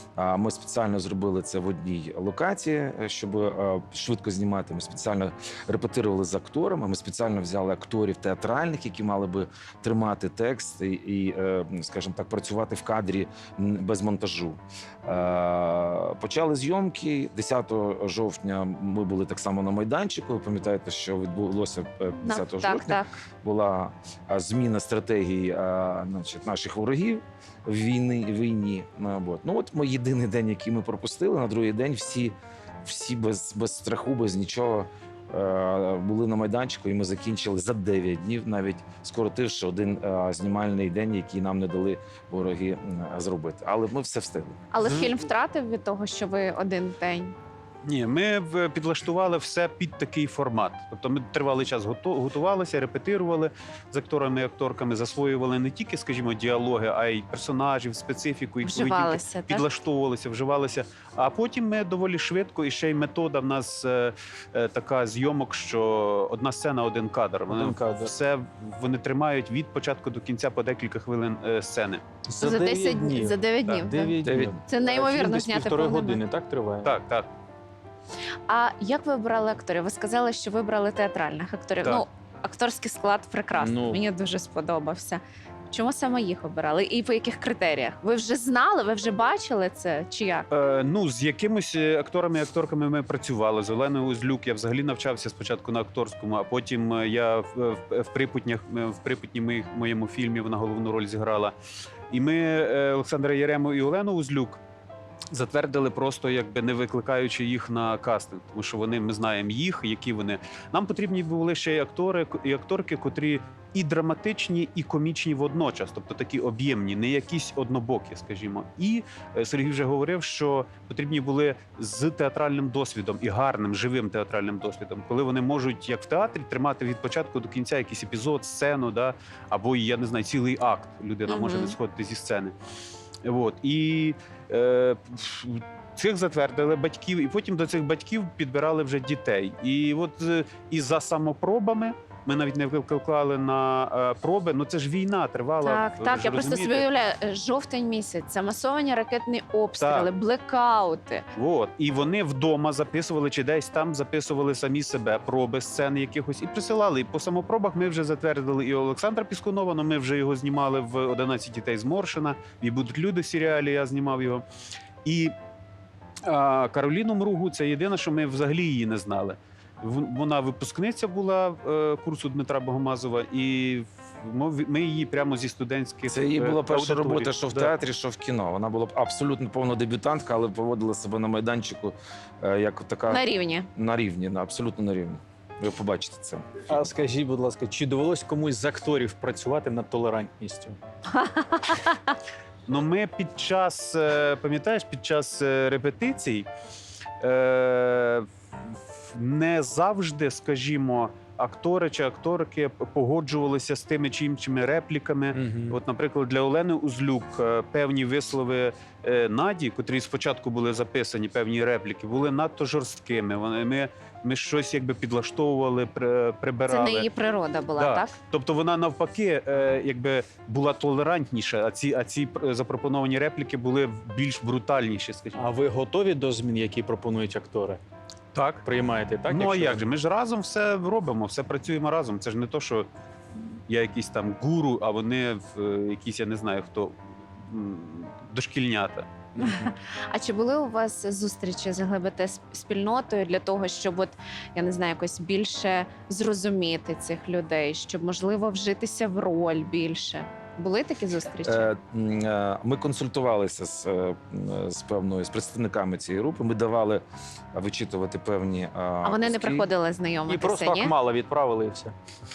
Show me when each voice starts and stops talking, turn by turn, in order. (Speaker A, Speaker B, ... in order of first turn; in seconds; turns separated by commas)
Speaker A: 0.2-44.6, Speaker B: 22.2-23.1, Speaker B: 44.7-47.3, Speaker C: 44.8-45.1, Speaker C: 47.9-72.0, Speaker B: 58.6-59.7, Speaker D: 67.5-68.1, Speaker D: 72.3-76.9, Speaker B: 72.4-74.2, Speaker A: 74.2-74.5, Speaker B: 74.7-76.2, Speaker C: 76.8-77.3, Speaker B: 78.5-90.5, Speaker D: 83.6-84.0, Speaker C: 90.5-101.6, Speaker C: 102.1-104.6, Speaker C: 105.3-132.6, Speaker B: 131.3-131.8, Speaker C: 133.2-146.9, Speaker B: 145.6-151.2, Speaker C: 149.8-150.1, Speaker C: 151.3-164.4, Speaker C: 165.1-165.3, Speaker C: 166.2-177.7, Speaker A: 176.1-186.8, Speaker B: 183.1-183.7, Speaker D: 186.7-190.8, Speaker B: 191.1-192.0, Speaker C: 192.7-196.5, Speaker C: 197.2-217.1, Speaker D: 205.3-205.8, Speaker B: 216.7-218.1, Speaker C: 217.8-225.4, Speaker D: 225.3-227.8, Speaker C: 228.3-228.6, Speaker D: 228.6-229.8, Speaker C: 229.3-232.9, Speaker C: 233.7-239.1, Speaker D: 239.3-239.7, Speaker B: 239.4-251.7, Speaker A: 251.4-257.0, Speaker A: 257.5-259.7, Speaker B: 259.0-260.9, Speaker D: 260.3-261.9